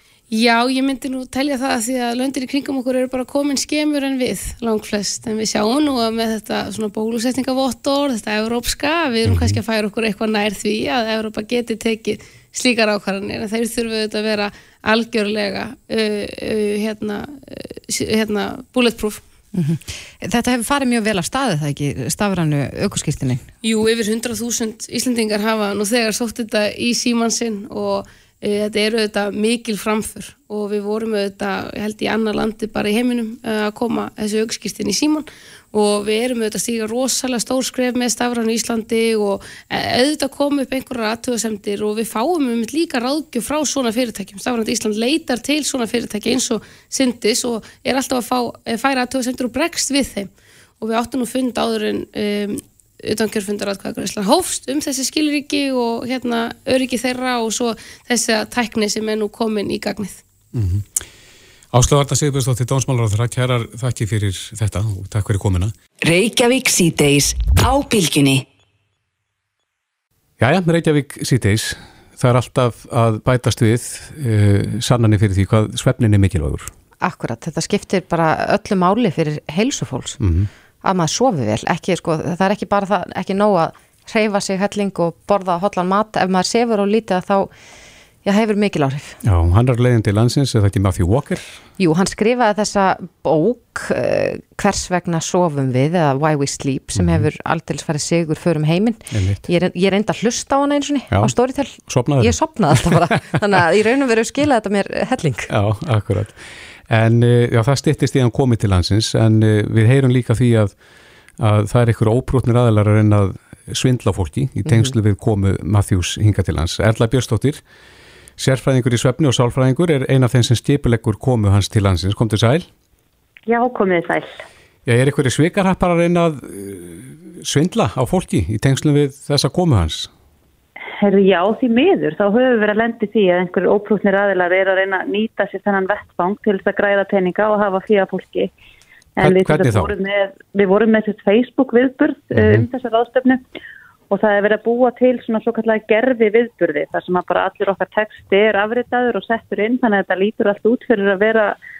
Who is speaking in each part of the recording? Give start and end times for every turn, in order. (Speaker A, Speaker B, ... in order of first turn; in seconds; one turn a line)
Speaker A: 0.3-19.2
Speaker B: 9.3-9.6
Speaker C: 19.5-23.4
Speaker A: 23.6-60.2
Speaker B: 60.5-60.9
Speaker B: 61.7-65.7
Speaker D: 66.0-68.5
Speaker B: 70.4-76.7
Speaker C: 77.0-80.2
Speaker B: 80.2-80.5
Speaker C: 80.8-87.5
Speaker C: 88.2-89.2
Speaker B: 89.2-91.6
Speaker C: 91.8-105.5
Speaker B: 97.0-97.3
Speaker B: 99.1-99.4
Speaker B: 101.1-103.2
Speaker B: 105.5-110.8
Speaker B: 111.4-117.6
Speaker C: 114.7-114.9
Speaker B: 118.4-122.7
Speaker E: 123.5-124.3
Speaker B: 124.9-130.1
Speaker E: 131.0-138.5
Speaker E: 139.2-143.4
Speaker B: 139.2-139.9
Speaker B: 142.3-142.7
Speaker E: 144.1-151.6